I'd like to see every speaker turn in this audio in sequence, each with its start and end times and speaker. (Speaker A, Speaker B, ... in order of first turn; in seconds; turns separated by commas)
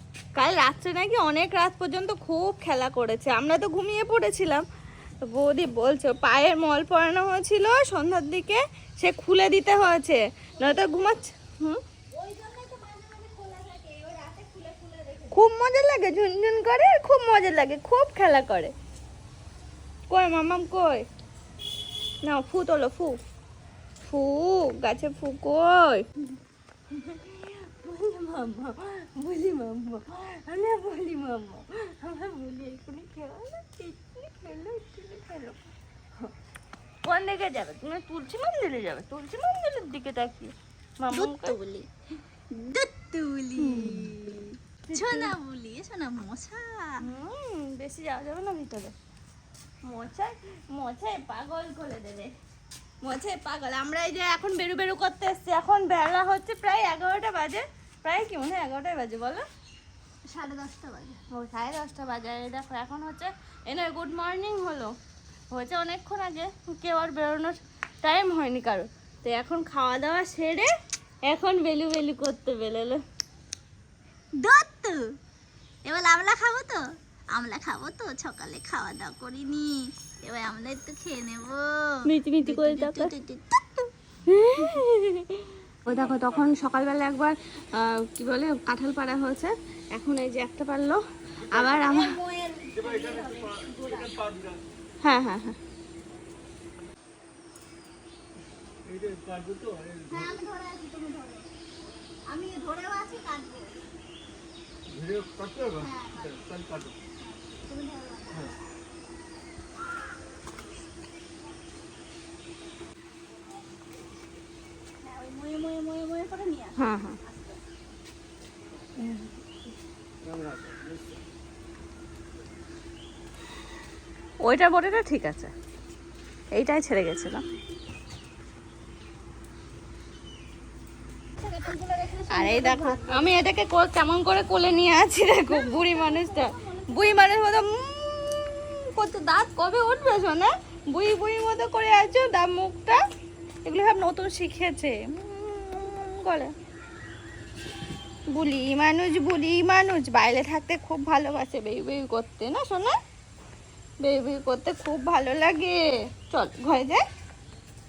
Speaker A: 0.3-4.6, Speaker A: 5.2-11.8, Speaker B: 10.6-11.1, Speaker B: 12.1-15.4, Speaker A: 15.3-18.7, Speaker A: 20.1-21.1, Speaker A: 22.2-23.2, Speaker A: 24.1-26.1, Speaker A: 26.9-35.7, Speaker A: 37.0-41.5, Speaker B: 41.1-41.9, Speaker B: 42.5-47.0, Speaker A: 43.6-45.4, Speaker A: 47.0-48.9, Speaker A: 49.8-52.3, Speaker A: 53.0-59.5, Speaker B: 60.2-61.2, Speaker A: 61.3-64.9, Speaker A: 65.5-70.7, Speaker A: 71.2-73.0, Speaker B: 74.4-75.1, Speaker B: 75.8-83.9, Speaker A: 82.0-83.1, Speaker A: 84.3-85.3, Speaker A: 85.8-91.0, Speaker C: 91.5-92.0, Speaker A: 91.5-92.0, Speaker B: 91.6-94.1, Speaker C: 92.7-94.6, Speaker A: 95.0-95.6, Speaker C: 98.9-100.4, Speaker B: 100.1-101.5, Speaker B: 102.3-103.7, Speaker C: 104.9-107.0, Speaker B: 105.8-106.4, Speaker B: 107.2-108.4, Speaker B: 115.0-117.4, Speaker A: 116.8-117.2, Speaker A: 119.0-119.3, Speaker C: 120.2-121.2, Speaker A: 124.4-125.5, Speaker A: 126.5-127.4, Speaker B: 131.4-133.3, Speaker A: 132.3-143.0, Speaker B: 135.5-137.3, Speaker A: 143.7-146.5, Speaker A: 148.3-152.9, Speaker A: 154.0-157.0